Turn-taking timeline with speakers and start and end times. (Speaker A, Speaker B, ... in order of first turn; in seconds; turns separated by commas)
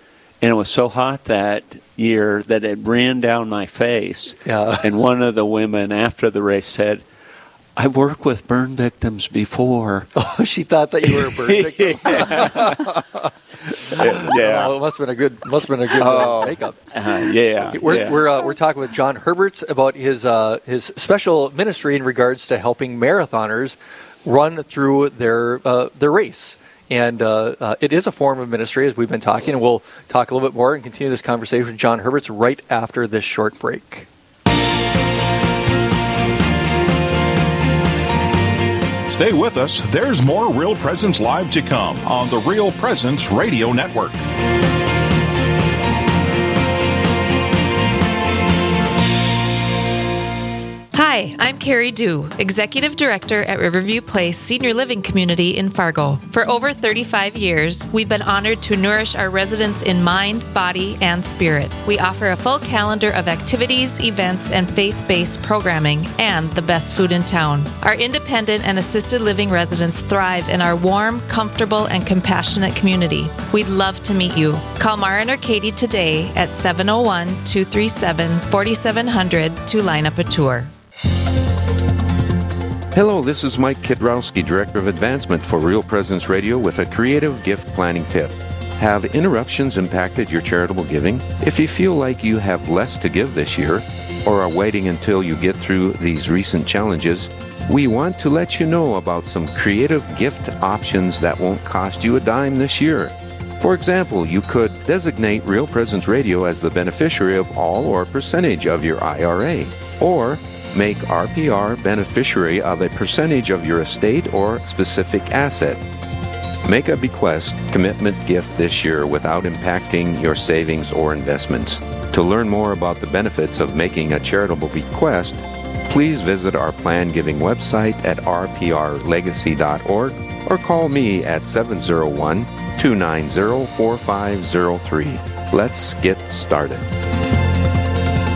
Speaker A: 0.4-7.0, Speaker B: 4.4-4.9, Speaker A: 7.8-10.1, Speaker B: 10.2-13.3, Speaker A: 11.0-12.9, Speaker A: 13.8-14.8, Speaker B: 13.9-16.8, Speaker A: 15.9-18.4, Speaker B: 17.6-34.1, Speaker C: 39.1-44.2, Speaker D: 50.9-80.7, Speaker E: 82.9-115.8, Speaker E: 116.6-136.8